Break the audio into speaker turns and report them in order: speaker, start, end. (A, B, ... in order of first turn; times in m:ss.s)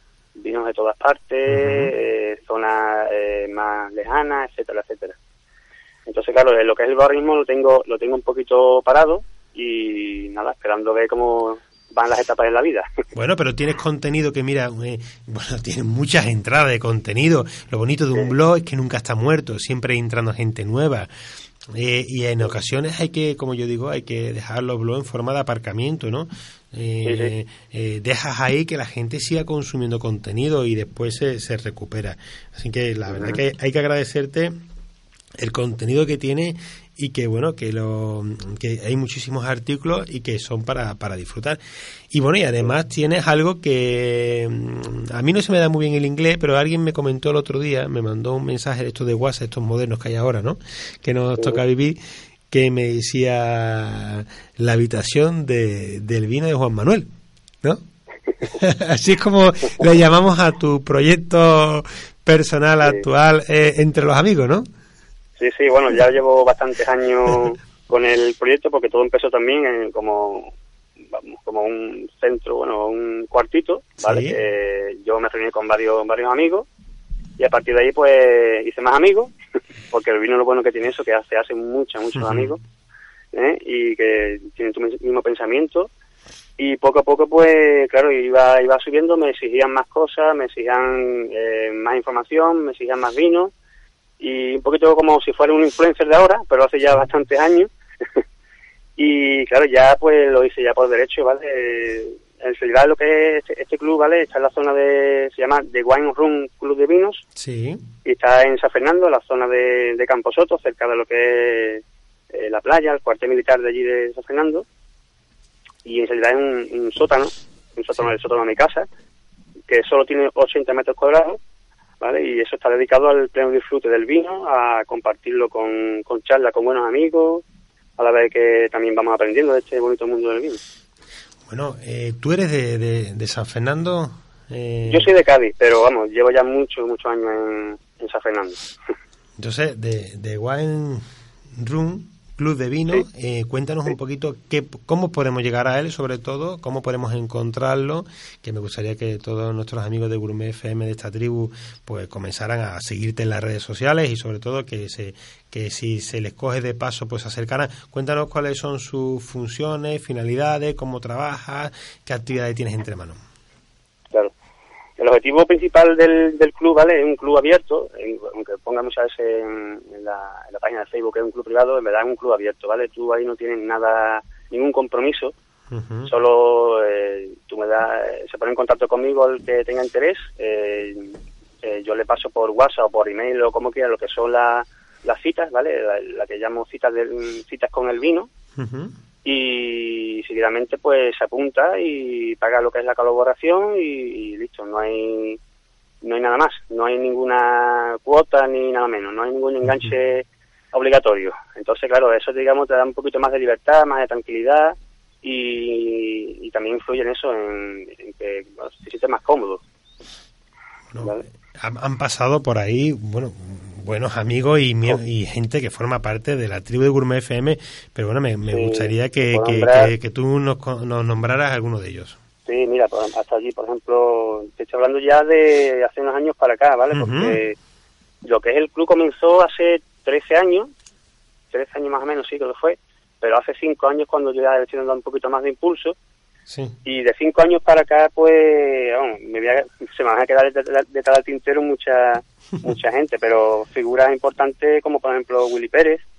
0:00.4-0:05.2 A
0:01.5-0:01.9 B
0:06.0-0:12.9 A
0:13.1-0:21.1 B
0:21.7-0:34.5 B
0:27.0-0:27.3 A
0:33.1-0:33.4 A
0:35.4-0:57.1 B
0:58.4-1:04.7 B
1:05.4-1:10.5 A
1:11.1-1:16.7 A
1:14.0-1:14.4 B
1:17.4-1:19.3 A
1:19.9-1:22.6 A
1:22.2-1:22.6 B
1:23.3-1:25.9 A
1:26.6-1:33.5 A
1:34.2-1:38.2 A
1:39.0-1:47.2 A
1:47.4-1:47.8 B
1:48.0-1:54.6 A
1:55.8-1:58.9 A
1:59.7-2:01.4 A
2:02.0-2:07.4 A
2:08.0-2:10.6 A
2:11.5-2:15.1 B
2:14.9-2:18.7 A
2:19.4-2:21.0 B
2:21.6-2:43.2 B
2:45.0-2:55.3 A
2:55.7-2:56.1 B
2:56.0-3:08.3 A
3:08.6-3:08.9 B
3:09.2-3:15.4 A
3:16.0-3:29.6 A
3:19.7-3:19.9 B
3:30.9-3:42.2 B
3:38.5-3:39.9 A
3:42.5-3:47.6 A
3:46.9-3:47.4 B
3:48.2-3:50.7 A
3:51.5-3:56.0 A
3:56.5-3:56.8 B
3:56.8-4:06.0 A